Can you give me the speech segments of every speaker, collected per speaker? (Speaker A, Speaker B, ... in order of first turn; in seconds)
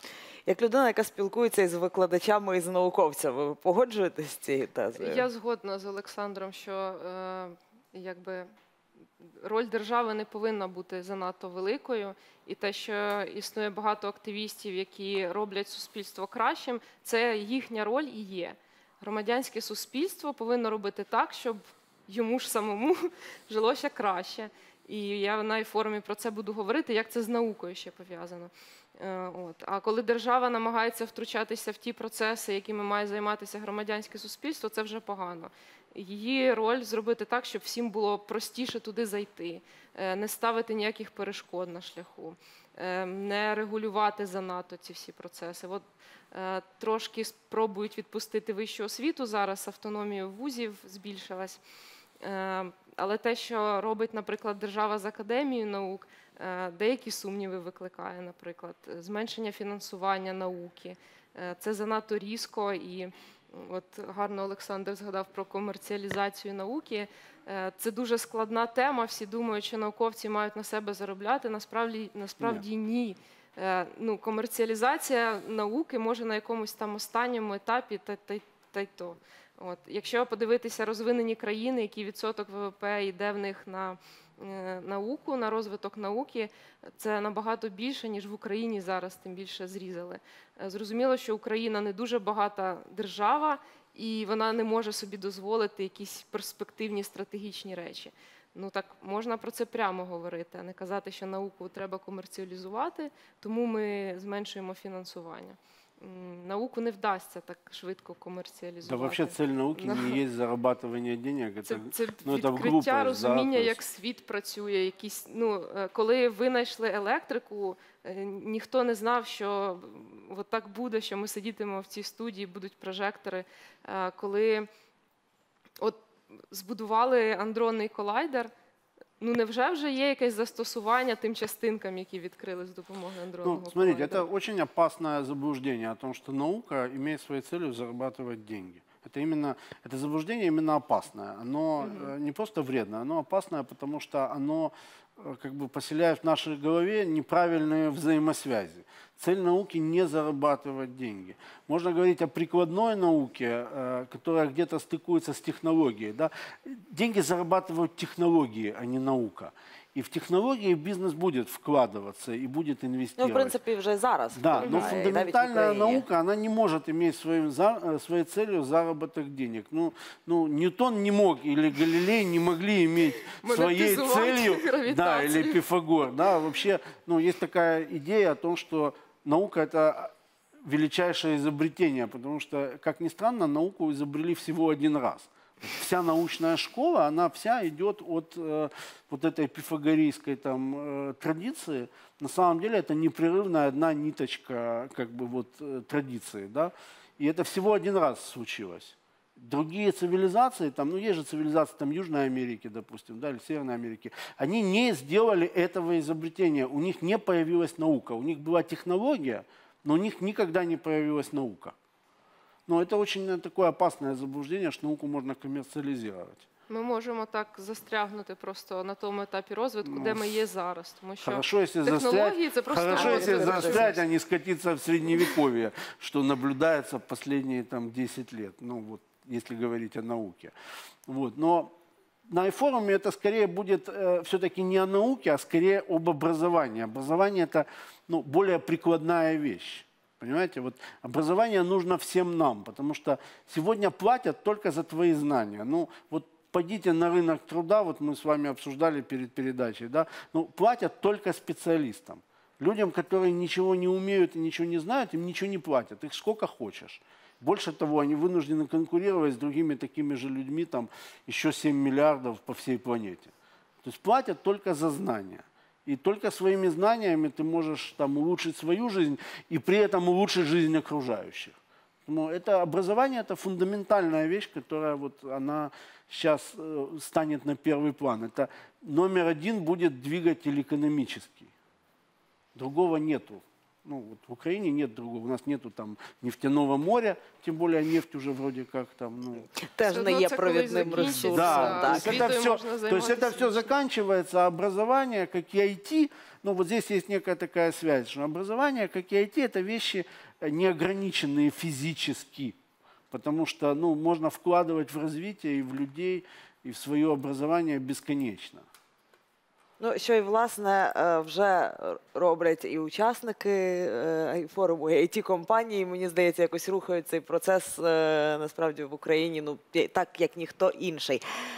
Speaker A: 0.5-5.2, 163.2-166.1, 222.9-223.9, 289.8-292.2, 309.8-321.2
Speaker B: 5.0-8.5, 9.4-51.6, 52.2-110.2, 111.6-124.7, 125.8-128.5, 129.2-134.2, 141.8-142.1, 164.6-164.9, 173.3-175.6, 216.7-224.0, 289.9-293.7
Speaker C: 108.8-113.8, 133.4-163.6, 164.3-180.1, 180.6-211.7, 212.7-216.4, 219.8-220.4, 221.2-230.6, 231.1-231.7, 232.3-263.3, 263.8-281.5, 282.6-289.5, 291.1-302.6, 303.1-308.6